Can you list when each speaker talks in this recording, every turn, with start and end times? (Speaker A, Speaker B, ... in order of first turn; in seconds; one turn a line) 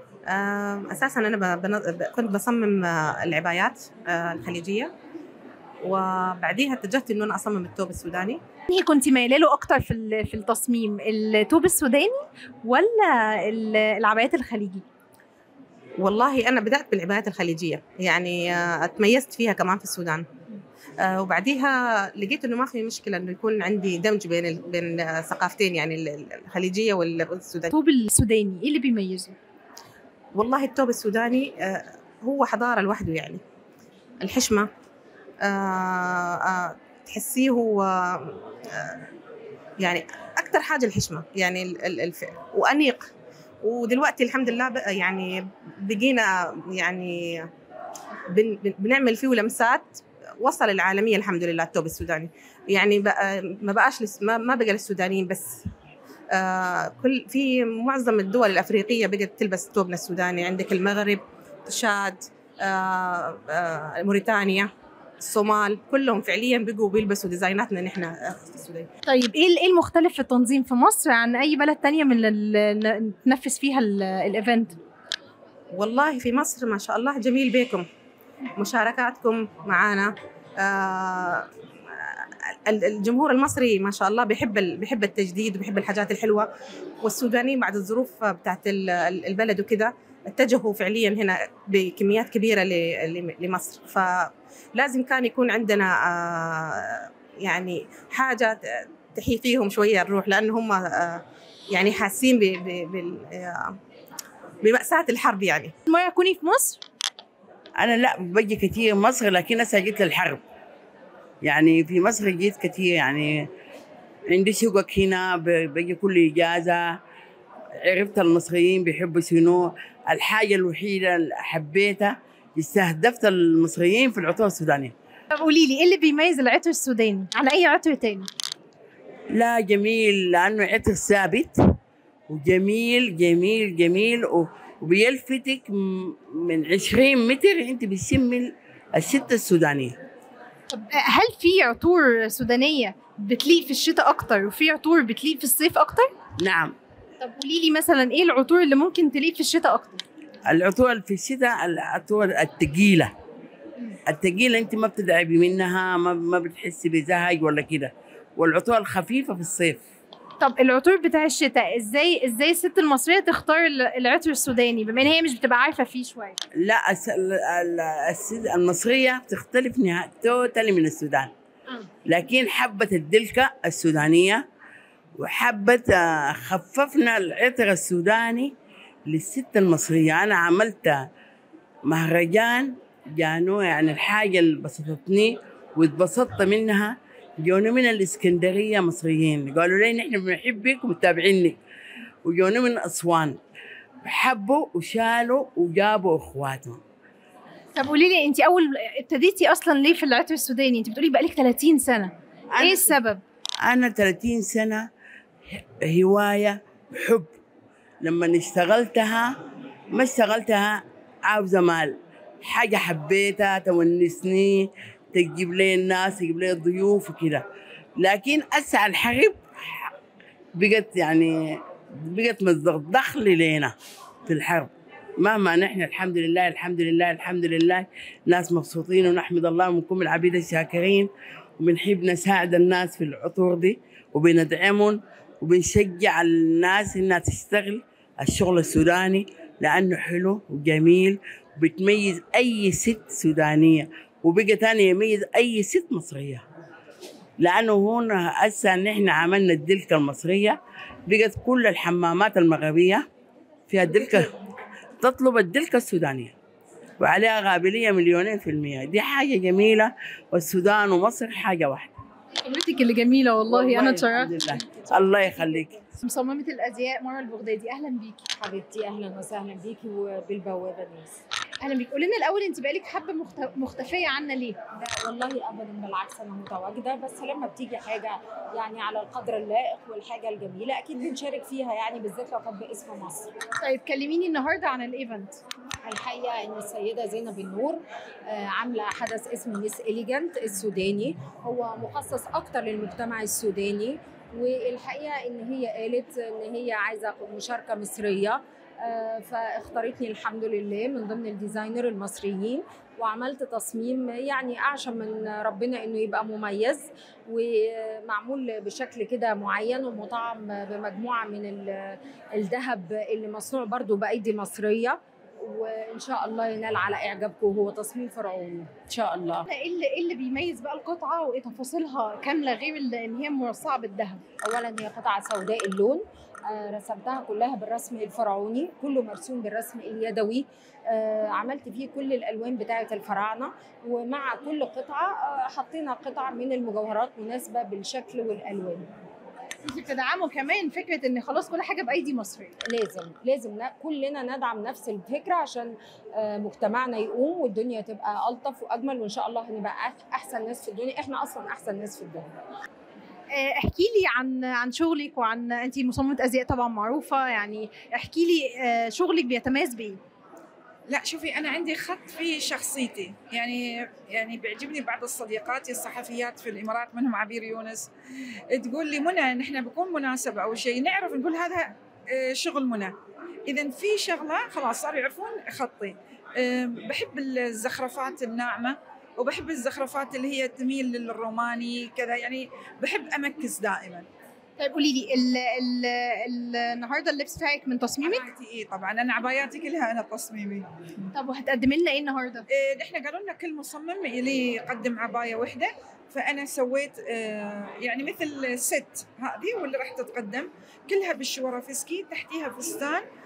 Speaker A: 0.3-4.9
Speaker A: 5.8-8.4
Speaker B: 8.7-14.8
Speaker A: 16.0-20.3
Speaker A: 21.0-27.7
Speaker B: 27.7-29.4
Speaker A: 30.3-33.4
Speaker A: 34.2-34.7
Speaker A: 35.5-39.1
Speaker A: 39.8-43.1
Speaker A: 43.6-47.5
Speaker A: 48.3-55.6
Speaker A: 56.3-68.9
Speaker B: 69.1-74.8
Speaker A: 75.7-77.9
Speaker A: 78.6-86.5
Speaker A: 87.0-103.7
Speaker A: 104.6-105.7
Speaker B: 105.9-106.8
Speaker C: 107.8-110.4
Speaker C: 111.4-113.5
Speaker C: 114.3-116.8
Speaker C: 117.8-124.9
Speaker B: 125.3-128.3
Speaker C: 129.3-131.6
Speaker C: 132.3-140.0
Speaker B: 140.7-146.1
Speaker C: 146.4-146.8
Speaker B: 147.2-150.0
Speaker C: 150.5-153.1
Speaker C: 154.1-159.8
Speaker B: 160.4-166.4
Speaker C: 166.6-171.3
Speaker C: 172.1-174.4
Speaker C: 175.2-178.5
Speaker C: 179.1-181.0
Speaker C: 181.9-191.6
Speaker C: 192.2-193.4
Speaker C: 194.1-196.8
Speaker B: 197.8-203.2
Speaker C: 202.5-203.0
Speaker C: 203.6-204.8
Speaker C: 205.5-207.4
Speaker C: 208.0-209.3
Speaker C: 209.9-217.4
Speaker C: 218.0-219.9
Speaker C: 220.6-223.7
Speaker C: 224.3-246.4
Speaker C: 247.4-253.0
Speaker C: 253.7-254.3
Speaker C: 255.0-256.4
Speaker C: 257.0-262.0
Speaker B: 262.4-264.4
Speaker C: 263.5-265.8
Speaker B: 266.0-268.2
Speaker D: 268.4-271.2
Speaker B: 271.6-274.6
Speaker D: 274.8-283.3
Speaker B: 283.6-285.4
Speaker D: 285.9-319.5
Speaker B: 319.5-324.2
Speaker D: 324.4-338.9
Speaker B: 339.6-342.6
Speaker D: 342.7-352.3
Speaker B: 353.3-360.0
Speaker E: 360.9-367.9
Speaker E: 368.5-372.9
Speaker E: 373.5-384.1
Speaker B: 384.6-388.3
Speaker E: 388.0-390.7
Speaker B: 391.1-392.4
Speaker E: 392.5-403.1